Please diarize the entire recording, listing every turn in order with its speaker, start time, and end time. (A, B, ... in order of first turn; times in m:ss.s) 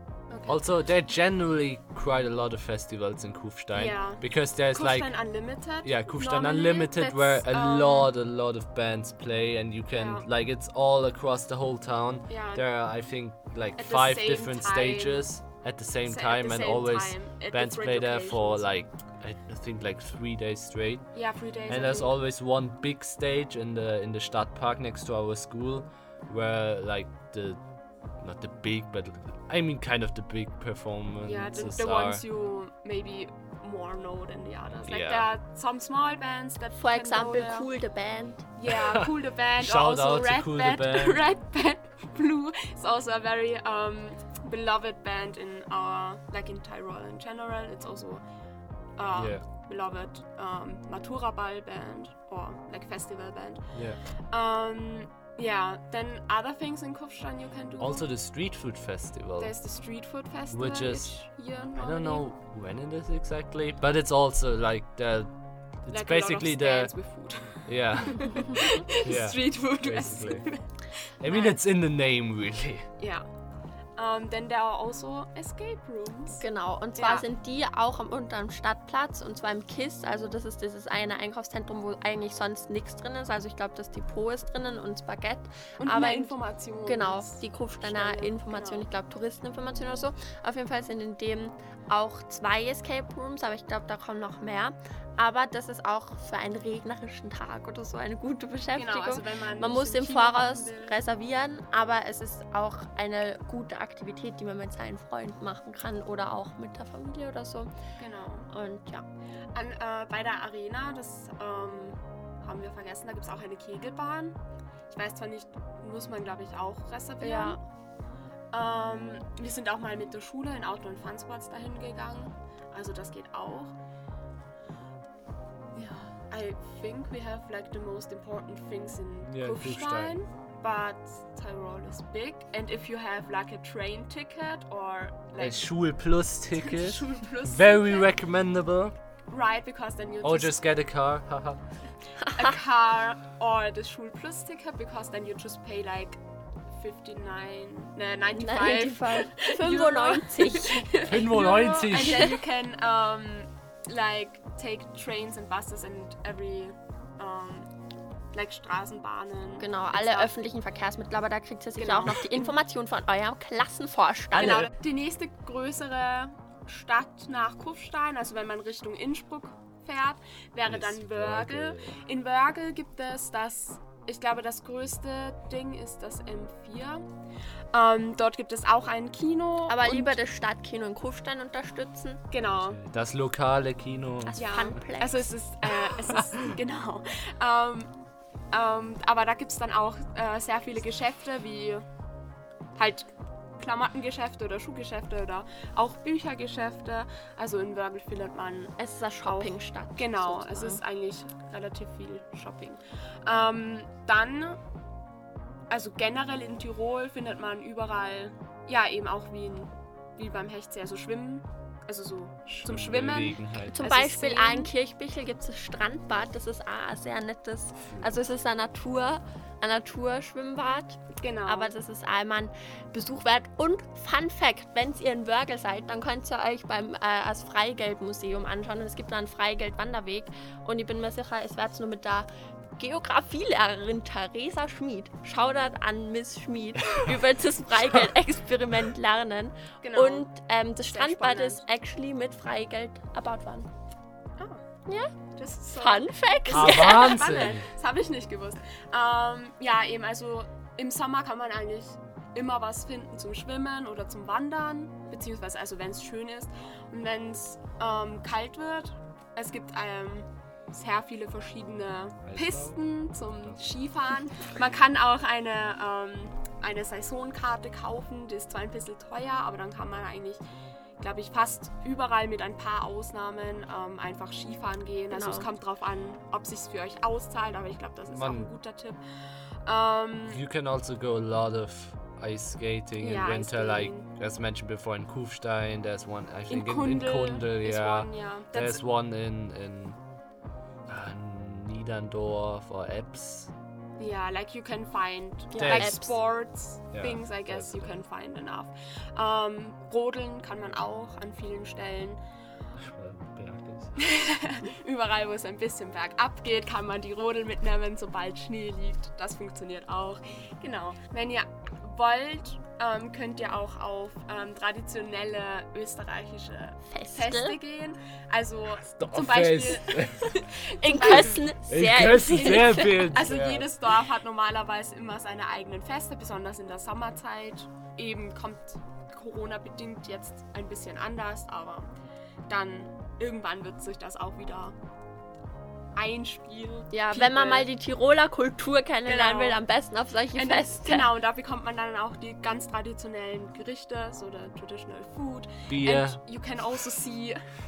0:00.3-0:00.6 A
0:00.5-0:05.1 B
0:03.7-0:08.1 A
0:05.8-0:21.1 B
0:10.0-0:10.2 A
0:12.3-0:12.6 A
0:13.8-0:15.2 A
0:16.0-0:18.7 A
0:21.1-0:22.2 A
0:21.7-0:32.2 B
0:31.2-0:37.7 A
0:34.8-0:35.3 B
0:36.8-0:38.4 C
0:38.6-0:48.2 A
0:38.7-0:39.0 B
0:39.6-0:41.2 B
0:49.0-0:53.8 A
0:49.1-0:49.4 B
0:53.7-0:54.0 B
0:54.3-0:58.1 A
0:57.8-0:59.5 B
0:59.4-1:02.2 A
1:00.5-1:06.9 B
1:05.9-1:11.6 A
1:07.6-1:08.4 B
1:09.0-1:10.4 B
1:11.2-1:12.9 B
1:13.0-1:13.2 A
1:14.0-1:16.4 A
1:16.4-1:26.3 C
1:16.9-1:17.2 A
1:25.8-1:28.8 A
1:26.8-1:47.7 C
1:38.7-1:41.0 A
1:48.0-1:48.5 A
1:48.5-1:49.0 C
1:49.5-1:54.4 A
1:54.9-1:57.6 A
1:57.2-1:57.6 C
1:58.5-2:03.7 A
2:05.7-2:15.7 A
2:09.2-2:10.2 B
2:15.4-2:18.9 B
2:16.6-2:18.1 A
2:19.3-2:20.6 A
2:20.2-2:21.6 B
2:22.2-2:22.6 C
2:22.3-2:26.2 A
2:26.7-2:37.7 A
2:28.3-2:31.0 C
2:31.0-2:32.3 B
2:38.3-2:40.3 A
2:39.6-2:44.7 C
2:41.7-2:42.5 A
2:44.3-2:57.0 A
2:44.4-2:44.6 B
2:50.6-2:52.0 B
2:57.7-3:00.2 A
2:59.7-3:02.2 C
3:02.3-3:02.8 A
3:02.5-3:04.4 B
3:04.2-3:05.3 C
3:04.4-3:07.9 A
3:06.1-3:06.5 B
3:08.5-3:11.8 A
3:12.8-3:24.6 A
3:18.8-3:20.8 C
3:25.7-3:34.7 A
3:32.5-3:33.8 B
3:33.7-4:03.7 C
3:37.8-3:38.1 B
3:41.2-3:41.7 A
3:59.8-4:00.2 A
4:00.9-4:01.6 A
4:04.4-4:04.6 A
4:04.9-4:05.1 C
4:05.4-4:30.4 A
4:05.7-4:07.2 C
4:06.5-4:07.7 B
4:22.2-4:22.8 B
4:23.4-4:23.8 B
4:31.0-4:40.4 A
4:35.1-4:35.5 C
4:38.1-4:38.5 B
4:40.3-4:50.0 B
4:43.0-4:44.1 A
4:46.5-4:48.8 A
4:50.9-4:53.5 B
4:54.0-5:02.2 A
4:55.5-4:56.1 C
4:55.6-4:56.0 B
4:56.9-4:58.0 B
5:02.8-5:04.1 B
5:04.0-5:21.4 A
5:16.8-5:17.6 C
5:18.9-5:20.4 B
5:20.7-5:23.2 C
5:21.7-5:23.7 B
5:22.3-5:31.9 A
5:32.5-5:34.7 A
5:36.0-5:37.7 A
5:36.9-5:41.1 C
5:39.0-5:39.6 A
5:40.3-5:47.4 A
5:45.7-5:46.2 B